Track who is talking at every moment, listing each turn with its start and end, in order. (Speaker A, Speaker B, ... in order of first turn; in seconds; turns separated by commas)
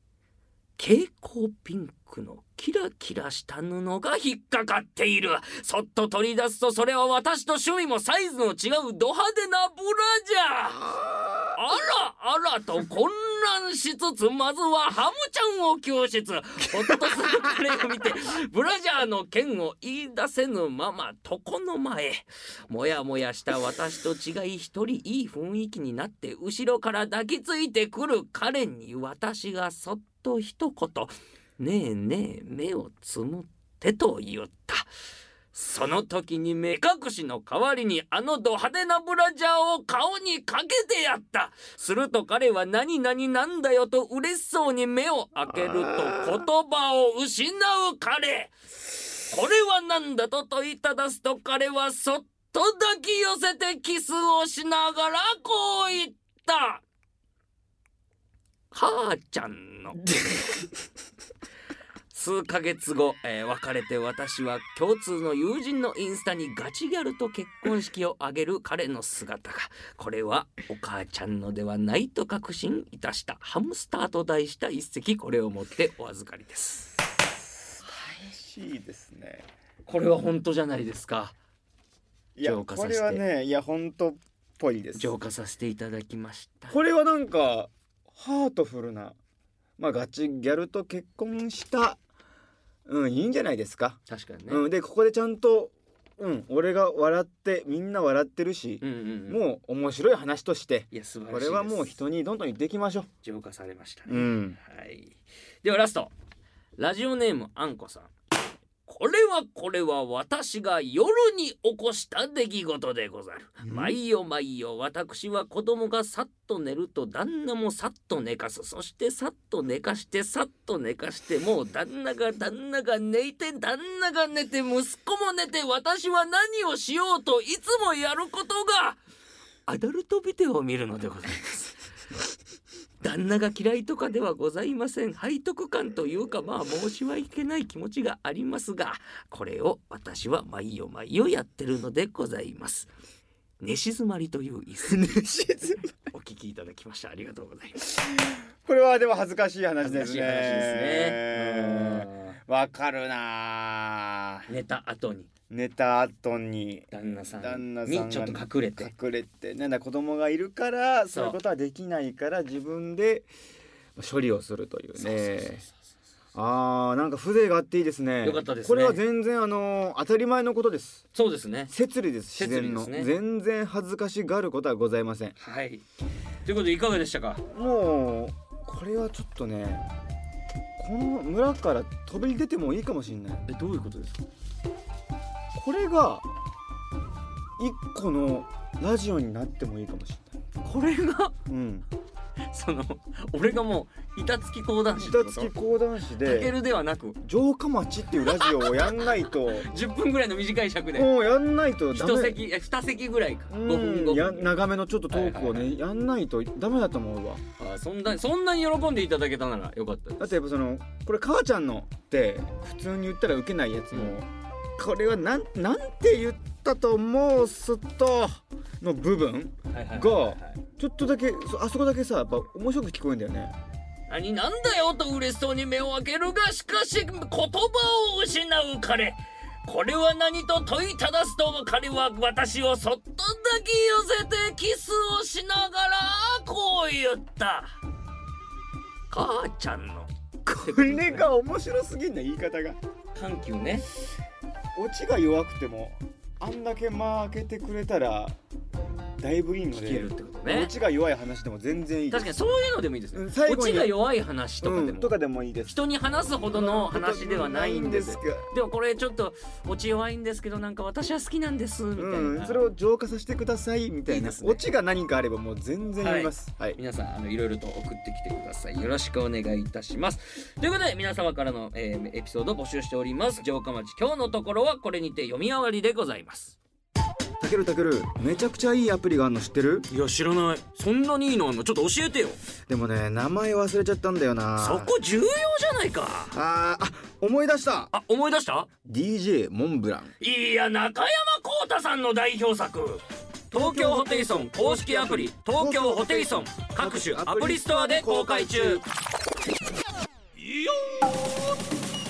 Speaker A: 0.8-10.9, Speaker B: 10.8-11.6, Speaker A: 11.5-34.9, Speaker A: 35.5-48.5, Speaker B: 45.5-46.5, Speaker A: 49.1-56.8, Speaker A: 58.7-60.1, Speaker A: 62.1-76.9, Speaker B: 77.7-79.5, Speaker A: 79.8-81.3, Speaker B: 82.3-85.1, Speaker A: 82.4-83.2, Speaker A: 85.0-86.8, Speaker B: 86.7-89.2, Speaker B: 89.8-92.0, Speaker B: 92.8-103.1, Speaker A: 94.1-94.6, Speaker A: 98.8-99.4, Speaker A: 100.9-101.9, Speaker A: 103.2-106.1, Speaker B: 104.1-104.6, Speaker A: 106.8-108.1, Speaker A: 108.8-129.0, Speaker B: 113.6-114.0, Speaker A: 129.7-131.8, Speaker A: 133.0-142.9, Speaker A: 143.6-145.2, Speaker B: 144.9-145.9, Speaker A: 146.1-147.9, Speaker B: 147.9-154.5, Speaker A: 149.8-152.4, Speaker A: 154.5-155.3, Speaker B: 155.5-163.3, Speaker A: 156.9-158.9, Speaker A: 161.1-161.4, Speaker B: 163.9-165.6, Speaker A: 165.0-165.7, Speaker B: 166.3-171.0, Speaker A: 168.2-169.0, Speaker A: 171.1-171.7, Speaker B: 171.7-175.3, Speaker A: 172.4-173.1, Speaker A: 175.4-175.8, Speaker A: 176.4-177.4, Speaker B: 177.5-179.8, Speaker B: 180.8-183.4, Speaker A: 183.5-184.2, Speaker B: 185.5-186.3, Speaker B: 187.6-190.3, Speaker A: 190.6-191.3, Speaker B: 191.5-191.8, Speaker A: 192.5-195.5, Speaker B: 195.0-196.5, Speaker A: 196.2-197.2, Speaker B: 197.2-199.7, Speaker A: 198.2-201.1, Speaker B: 200.9-202.4, Speaker A: 201.9-205.8, Speaker B: 203.5-207.4, Speaker A: 207.6-210.3, Speaker B: 210.2-223.6, Speaker A: 213.9-214.2, Speaker A: 219.7-220.6, Speaker A: 224.1-237.8, Speaker A: 239.1-241.3, Speaker B: 240.5-242.8, Speaker A: 243.1-243.9, Speaker B: 244.7-248.4, Speaker B: 249.2-252.3, Speaker A: 249.7-250.7, Speaker A: 252.1-262.7, Speaker B: 253.1-253.9, Speaker B: 254.6-255.8, Speaker B: 256.5-258.5, Speaker B: 261.9-266.8, Speaker A: 264.1-264.6, Speaker A: 266.0-276.6, Speaker B: 277.4-279.9, Speaker A: 279.9-282.4, Speaker B: 282.7-284.9, Speaker A: 284.6-286.3, Speaker B: 286.3-287.9, Speaker A: 287.9-288.7, Speaker B: 288.8-290.1, Speaker A: 290.2-298.8, Speaker B: 293.5-298.9, Speaker A: 300.5-301.1